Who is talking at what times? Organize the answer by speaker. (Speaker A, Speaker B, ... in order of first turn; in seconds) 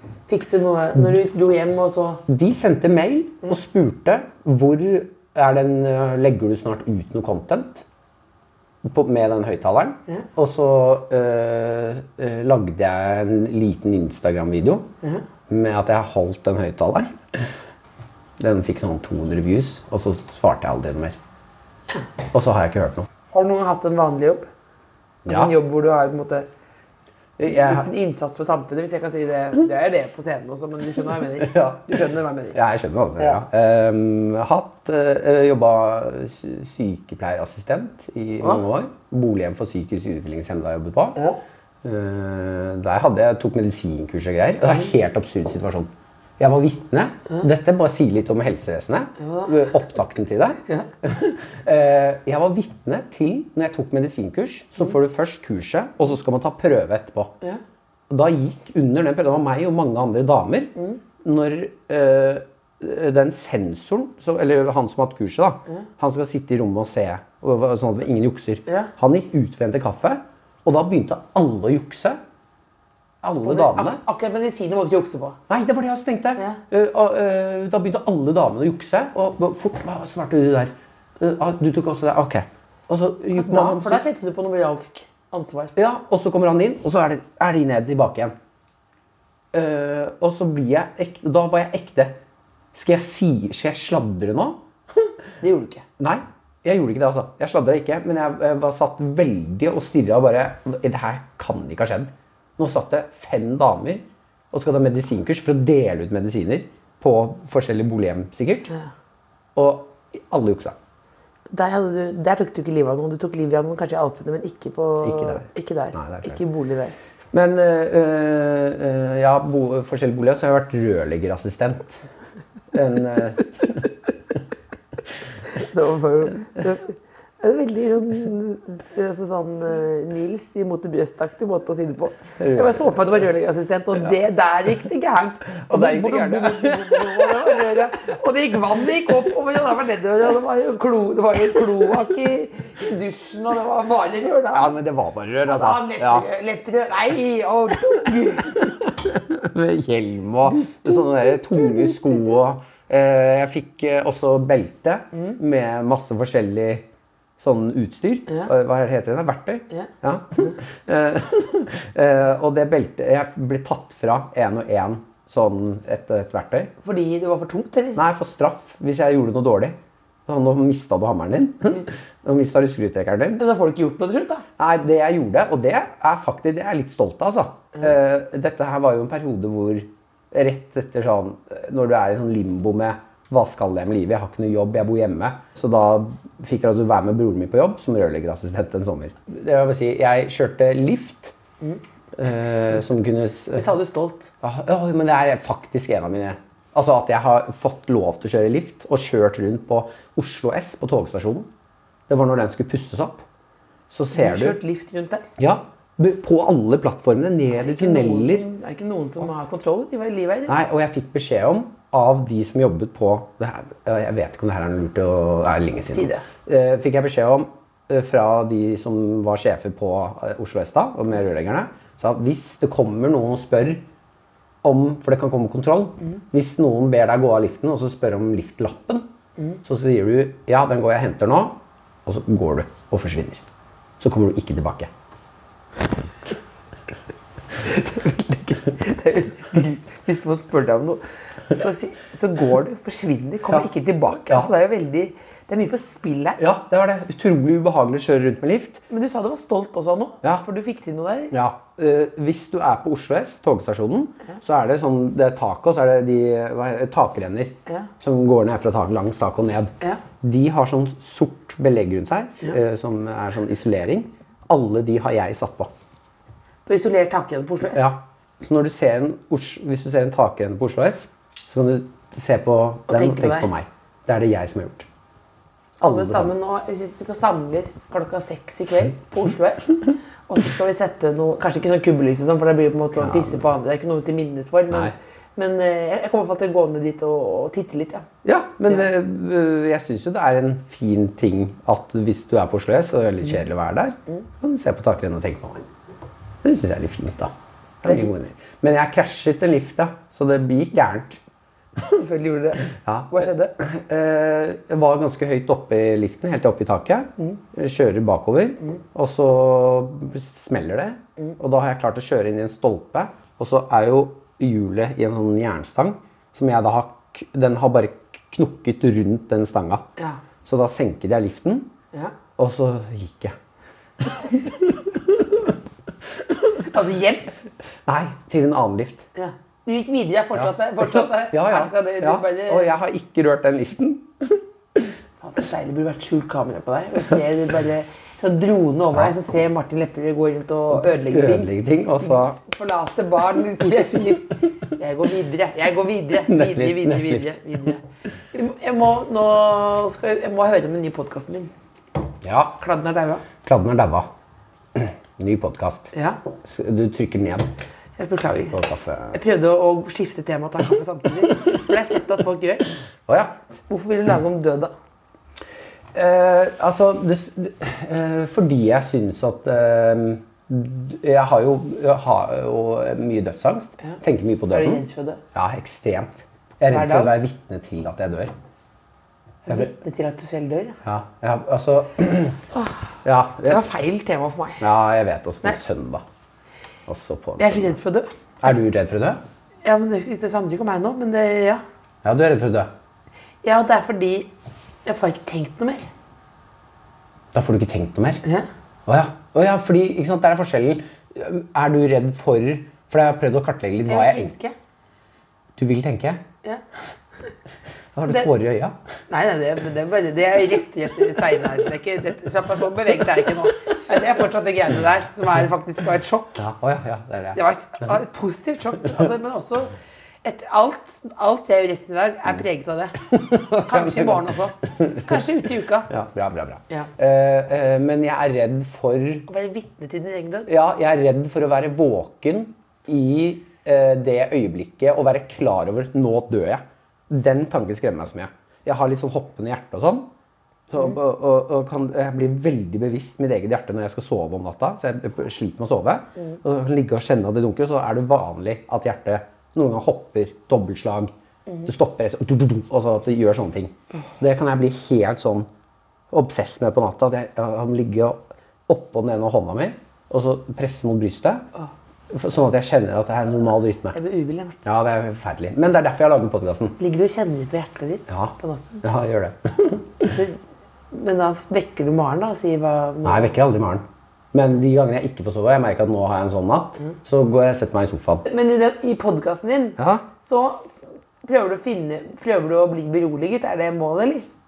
Speaker A: 0.3-2.2, 23.3-24.5, 25.3-26.5, 27.5-32.6, 49.2-49.6, 73.4-75.4, 83.3-85.7, 95.4-95.8, 111.5-116.9, 125.5-144.7, 145.4-148.8, 150.5-151.0, 166.8-168.0, 173.4-174.4, 193.6-194.3, 204.1-205.2, 207.5-210.6, 215.9-216.2, 237.6-246.4, 248.9-251.3, 266.7-267.9, 272.9-273.5, 275.8-288.1, 301.9-303.5, 326.6-327.3, 329.1-332.7, 335.2-341.5, 342.0-351.5, 352.6-353.2, 355.9-356.2, 358.0-358.6, 359.1-362.7, 363.7-364.7, 374.5-375.2, 376.7-377.1, 379.4-380.8, 382.5-382.8, 383.4-384.6, 387.4-388.1, 389.6-391.6, 393.4-394.3, 394.8-395.9, 403.9-404.5, 409.1-416.4, 417.3-425.9, 429.3-430.5, 463.9-464.6, 466.8-468.8, 470.0-470.4, 470.9-473.3, 478.3-484.3
Speaker B: 2.3-7.8, 8.8-14.9, 15.5-17.5, 18.4-21.1, 22.3-23.1, 25.2-25.5, 27.4-27.9, 31.4-41.2, 41.8-57.3, 58.1-72.2, 73.2-74.0, 75.5-84.0, 85.8-88.3, 89.5-92.2, 92.7-95.1, 96.0-108.7, 109.5-110.8, 115.0-116.4, 117.3-122.0, 122.7-123.9, 132.4-133.1, 135.6-137.8, 144.5-146.3, 148.8-156.8, 157.4-166.7, 167.9-173.4, 174.6-191.3, 192.2-193.7, 194.4-201.5, 202.1-203.2, 203.9-204.6, 205.4-208.4, 210.5-223.8, 224.6-229.1, 229.6-233.4, 234.0-234.9, 246.4-248.8, 251.3-265.7, 267.7-274.9, 275.8-276.3, 283.0-283.4, 288.2-295.7, 296.4-297.3, 297.8-301.2, 302.7-319.8, 320.4-321.7, 322.4-323.4, 324.0-325.5, 327.9-329.1, 330.4-334.8, 340.9-342.4, 346.2-347.6, 352.2-352.6, 353.4-354.1, 354.7-357.5, 358.5-359.2, 363.1-363.3, 365.9-378.3, 380.8-382.4, 383.0-383.6, 384.6-386.0, 386.9-387.8, 388.4-389.2, 392.0-392.7, 397.3-398.2, 398.9-404.3, 405.6-406.2, 407.9-408.8, 416.4-417.4, 423.1-425.1, 425.9-429.2, 430.5-440.1, 440.7-451.1, 451.6-455.5, 456.1-461.4, 462.1-463.9, 464.6-466.8, 468.1-470.1, 473.0-478.2, 479.8-480.1